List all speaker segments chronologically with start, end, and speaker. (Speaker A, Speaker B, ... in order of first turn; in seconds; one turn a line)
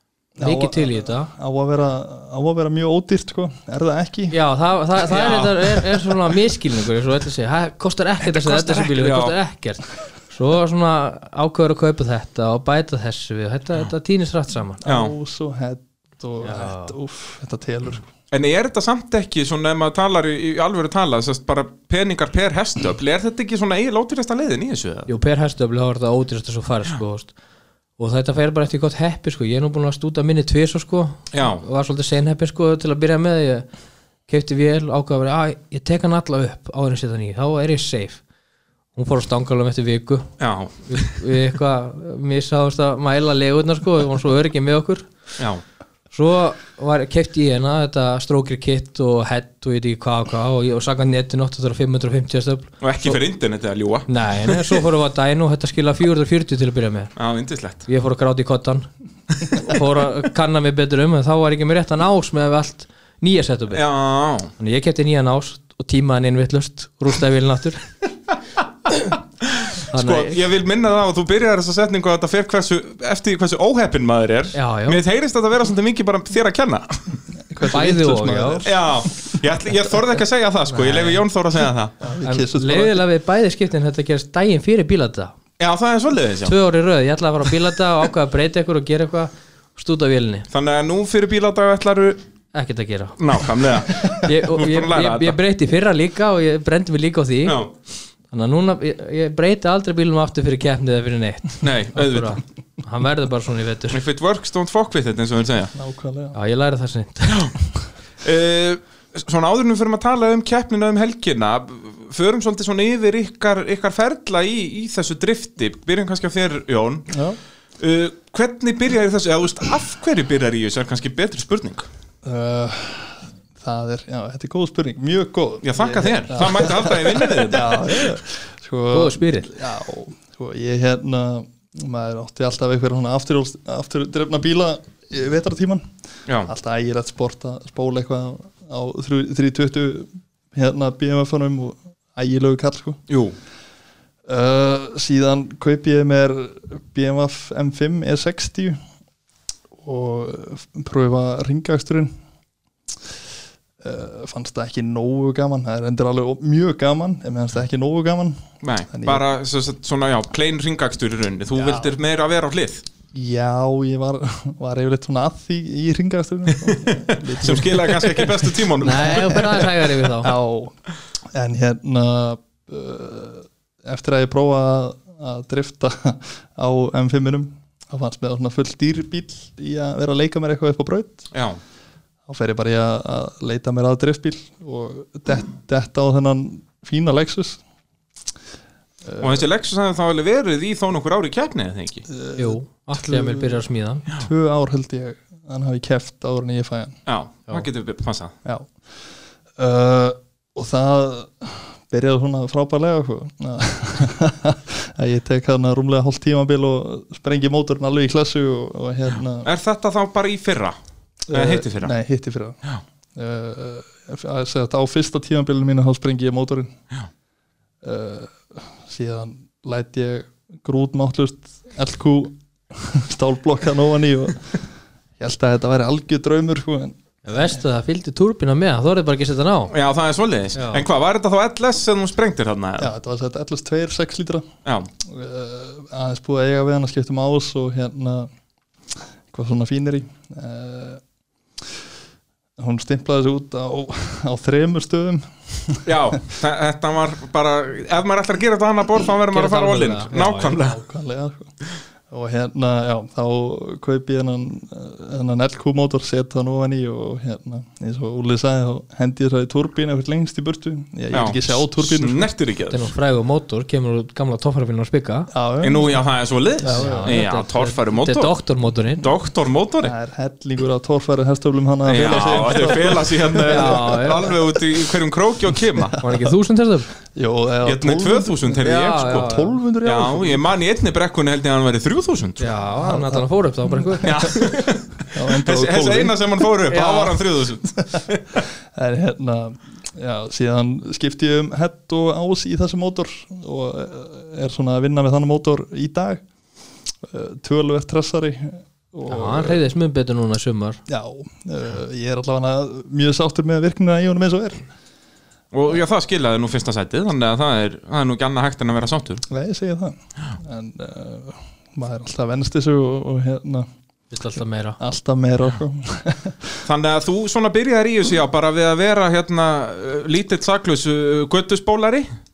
Speaker A: 0.4-4.4
Speaker B: 0.4-1.3
Speaker B: 4.3-14.8
Speaker C: 5.1-6.0
Speaker C: 8.2-9.4
Speaker A: 14.8-18.1
Speaker C: 14.8-15.1
Speaker B: 16.4-16.9
Speaker C: 18.3-25.1
Speaker B: 25.1-27.3
Speaker B: 28.0-33.7
Speaker C: 31.3-31.6
Speaker B: 34.3-38.2
Speaker B: 39.0-40.3
Speaker C: 40.4-41.1
Speaker B: 40.9-45.1
Speaker B: 46.1-53.2
Speaker C: 52.8-54.8
Speaker B: 54.1-57.1
Speaker C: 57.2-57.9
Speaker B: 57.9-58.9
Speaker B: 59.4-63.8
Speaker C: 63.7-64.5
Speaker B: 64.6-67.9
Speaker C: 69.4-77.0
Speaker B: 69.9-70.4
Speaker B: 74.5-75.0
Speaker A: 77.4-79.1
Speaker B: 77.7-78.7
Speaker C: 78.7-81.9
Speaker B: 80.7-81.2
Speaker A: 82.0-83.0
Speaker B: 82.2-85.3
Speaker C: 85.6-86.5
Speaker B: 86.5-90.5
Speaker C: 90.5-92.2
Speaker B: 92.5-97.6
Speaker C: 93.2-95.4
Speaker C: 97.5-97.7
Speaker B: 98.3-104.0
Speaker C: 101.6-102.4
Speaker C: 103.9-105.7
Speaker A: 105.8-106.4
Speaker B: 106.3-107.5
Speaker C: 107.3-107.5
Speaker C: 108.2-117.2
Speaker A: 117.1-117.4
Speaker C: 117.8-121.9
Speaker A: 122.2-135.9
Speaker C: 125.6-128.1
Speaker B: 128.9-129.5
Speaker A: 136.4-143.0
Speaker C: 143.1-143.3
Speaker A: 144.3-148.8
Speaker A: 149.8-152.1
Speaker A: 153.8-159.3
Speaker C: 158.6-162.8
Speaker A: 161.6-161.9
Speaker A: 163.1-170.8
Speaker C: 166.8-169.5
Speaker B: 168.8-170.3
Speaker A: 171.3-181.3
Speaker C: 181.3-181.6
Speaker A: 182.3-187.6
Speaker A: 189.0-189.5
Speaker C: 189.2-192.1
Speaker A: 192.1-197.0
Speaker B: 192.4-194.1
Speaker C: 197.1-198.3
Speaker A: 198.4-198.8
Speaker A: 199.6-209.5
Speaker C: 209.4-210.8
Speaker A: 211.3-212.6
Speaker C: 211.3-211.9
Speaker A: 213.2-216.7
Speaker A: 217.8-224.6
Speaker A: 225.2-227.6
Speaker B: 227.2-229.7
Speaker C: 229.7-232.9
Speaker B: 230.6-230.8
Speaker A: 232.8-234.5
Speaker C: 234.7-234.9
Speaker A: 235.0-238.3
Speaker A: 239.3-241.0
Speaker A: 242.6-245.9
Speaker C: 245.8-250.8
Speaker B: 249.3-250.6
Speaker A: 250.6-251.5
Speaker A: 252.1-262.3
Speaker C: 261.1-262.9
Speaker B: 262.7-265.3
Speaker A: 265.3-266.0
Speaker C: 265.6-268.3
Speaker A: 266.6-267.2
Speaker B: 266.7-269.1
Speaker C: 269.0-269.9
Speaker A: 269.8-274.4
Speaker C: 271.9-276.0
Speaker B: 273.5-274.3
Speaker A: 275.8-276.2
Speaker B: 276.0-276.9
Speaker A: 277.1-280.5
Speaker C: 277.6-282.6
Speaker B: 278.6-279.6
Speaker B: 282.4-284.4
Speaker A: 282.8-284.3
Speaker C: 284.0-288.4
Speaker A: 285.1-286.5
Speaker B: 286.7-287.2
Speaker A: 288.7-296.2
Speaker A: 297.1-299.6
Speaker B: 299.1-300.8
Speaker A: 300.9-304.7
Speaker C: 305.5-309.2
Speaker A: 309.3-313.7
Speaker B: 314.1-314.8
Speaker A: 314.8-316.6
Speaker C: 316.6-322.1